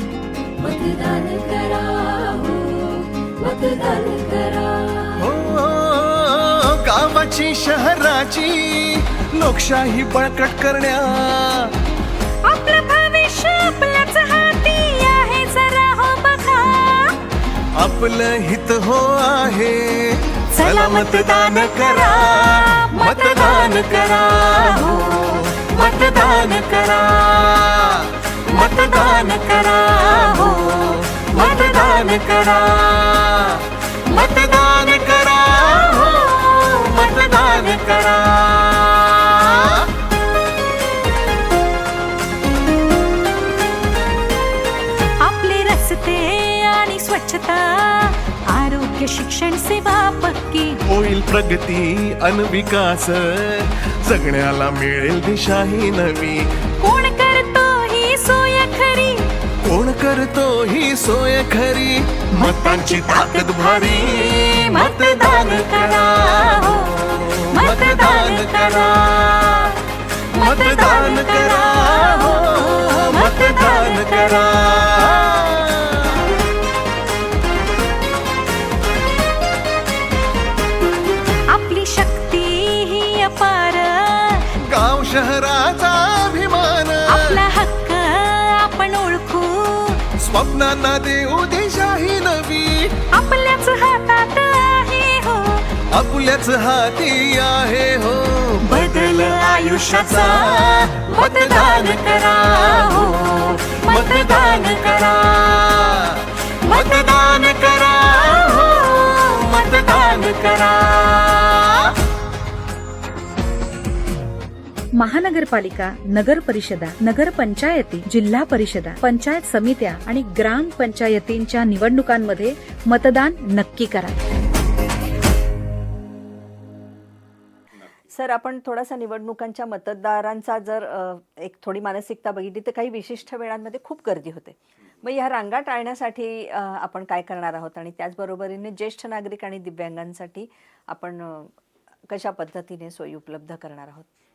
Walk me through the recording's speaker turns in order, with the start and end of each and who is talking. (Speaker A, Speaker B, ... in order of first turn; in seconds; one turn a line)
Speaker A: 0.6-5.2
Speaker B: 5.2-11.7
Speaker C: 12.5-17.2
Speaker B: 17.8-39.9
Speaker C: 20.6-25.0
Speaker C: 25.8-26.2
Speaker C: 28.5-32.2
Speaker C: 36.0-36.3
Speaker C: 45.2-50.8
Speaker B: 50.9-56.4
Speaker C: 56.8-59.3
Speaker B: 59.6-69.7
Speaker C: 62.4-69.7
Speaker B: 70.3-76.3
Speaker C: 70.4-74.2
Speaker C: 81.5-84.5
Speaker B: 84.6-87.4
Speaker C: 87.1-90.0
Speaker B: 90.2-93.0
Speaker C: 93.1-95.7
Speaker B: 95.9-111.9
Speaker C: 98.6-105.0
Speaker C: 106.7-107.7
Speaker C: 108.2-110.2
Speaker D: 115.0-124.2
Speaker E: 128.1-141.5
Speaker E: 142.1-144.1